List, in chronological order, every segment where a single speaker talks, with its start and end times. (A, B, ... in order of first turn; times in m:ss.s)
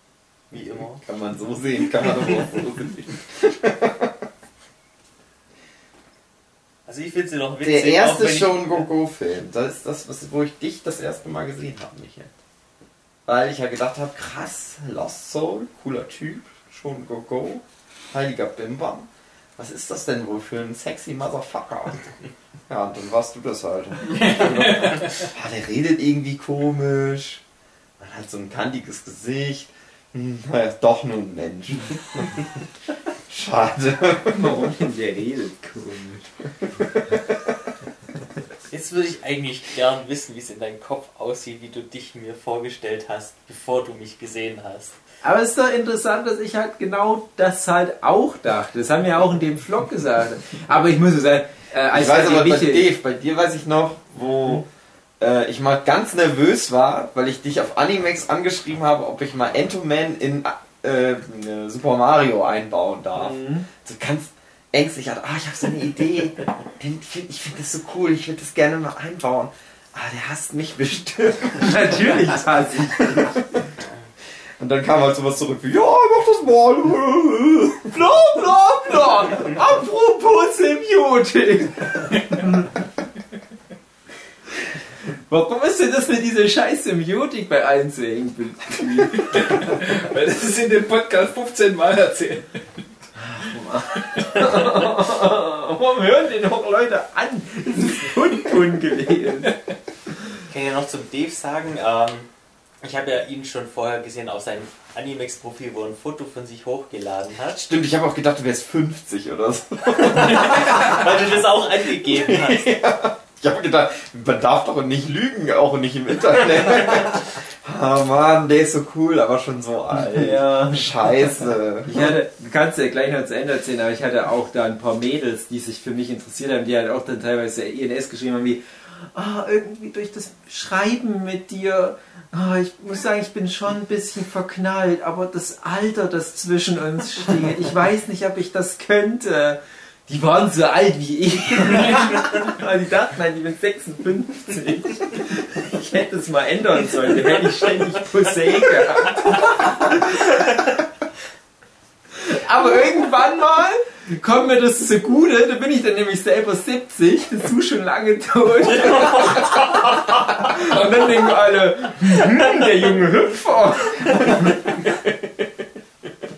0:00.5-0:01.0 A
0:00.5-0:04.3 B
0:06.9-0:08.9 A
0:07.6-0:12.3 B
0:13.3-0:22.1 B
0:22.7-0:27.4 B
0:28.0-0:32.5 B
0:33.3-0:34.7 B
0:34.3-0:36.3 C
0:36.6-0:37.2 B
0:38.7-0:45.0 A
0:45.2-0:52.9 C
0:51.9-0:54.7 B
0:55.2-1:13.4 B
1:03.2-1:03.7 C
1:11.6-1:13.4 C
1:14.6-1:17.9 B
1:17.9-1:22.7 C
1:25.1-1:29.6 C
1:29.2-1:32.6 D
1:33.2-1:39.6 C
1:34.0-1:34.4 D
1:40.5-1:42.3 A
1:42.8-1:47.6 A
1:47.6-1:51.4 B
1:50.0-1:52.7 A
1:52.0-2:02.2 B
1:59.9-2:01.3 C
2:01.9-2:30.5 C
2:32.2-2:44.8 C